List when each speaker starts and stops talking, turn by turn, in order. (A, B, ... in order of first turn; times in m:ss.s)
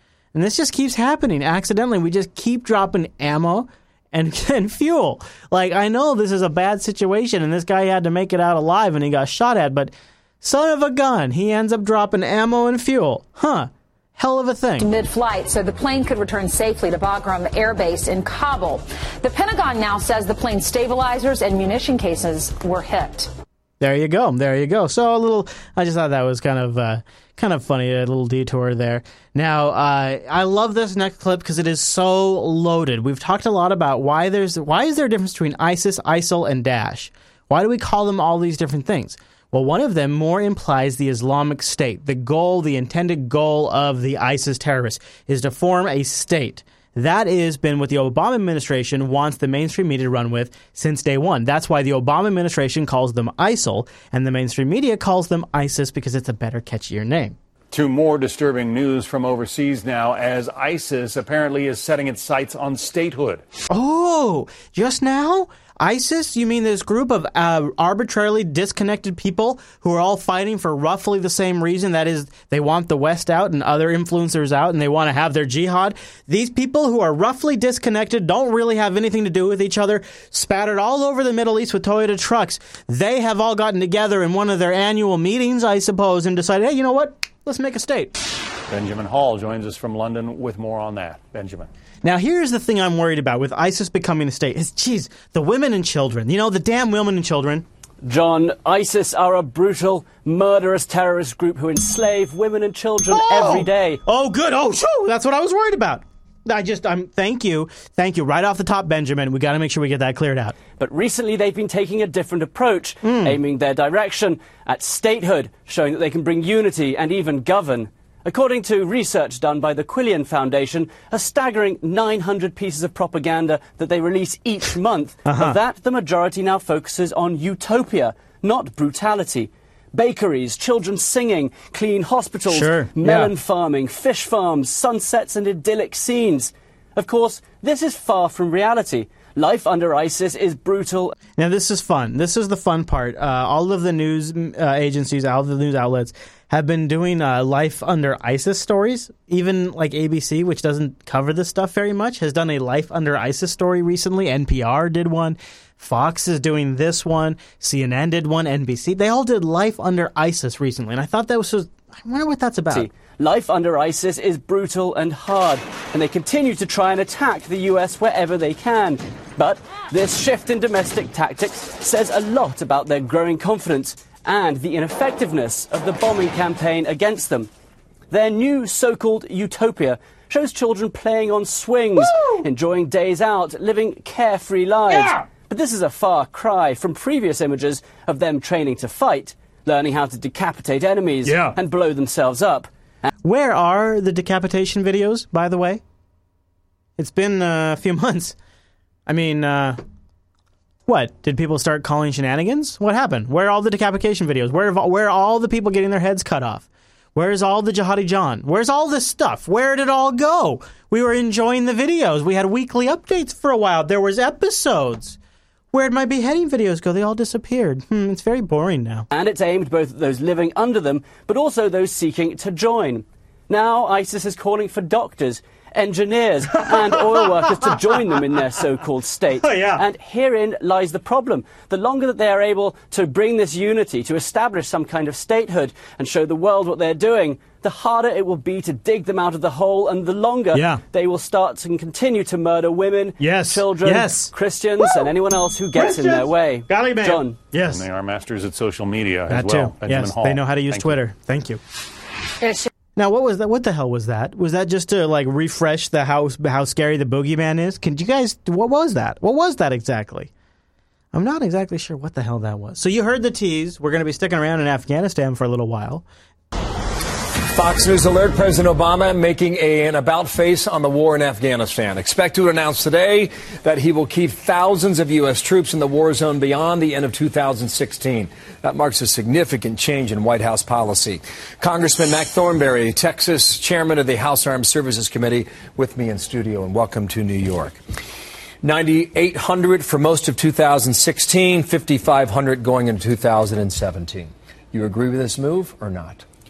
0:00.3-0:14.9 A
0:14.8-0:23.3 B
0:23.8-0:57.4 A
0:57.7-1:03.4 C
1:03.7-1:28.2 A
1:28.7-1:31.7 C
1:32.0-1:37.6 A
1:38.0-1:44.0 D
1:43.1-1:50.5 A
1:50.7-2:21.2 D
1:53.0-1:53.4 A
2:05.2-2:05.6 A
2:12.5-2:13.3 A
2:21.4-2:42.9 A
2:42.7-2:57.5 D
2:58.1-3:12.7 D
3:04.9-3:05.2 A
3:11.2-3:11.6 A
3:13.2-3:15.8 A
3:17.0-3:18.4 A
3:19.1-3:19.8 A
3:20.9-3:35.2 A
3:35.7-3:39.1 A
3:39.1-4:07.4 D
3:46.6-3:47.8 A
3:49.4-3:49.9 A
4:00.5-4:00.8 A
4:03.2-4:05.1 A
4:05.7-4:07.8 A
4:07.7-4:11.0 C
4:09.3-4:11.6 A
4:13.0-4:20.3 A
4:21.1-4:26.0 A
4:27.5-4:47.8 E
4:48.6-4:56.2 E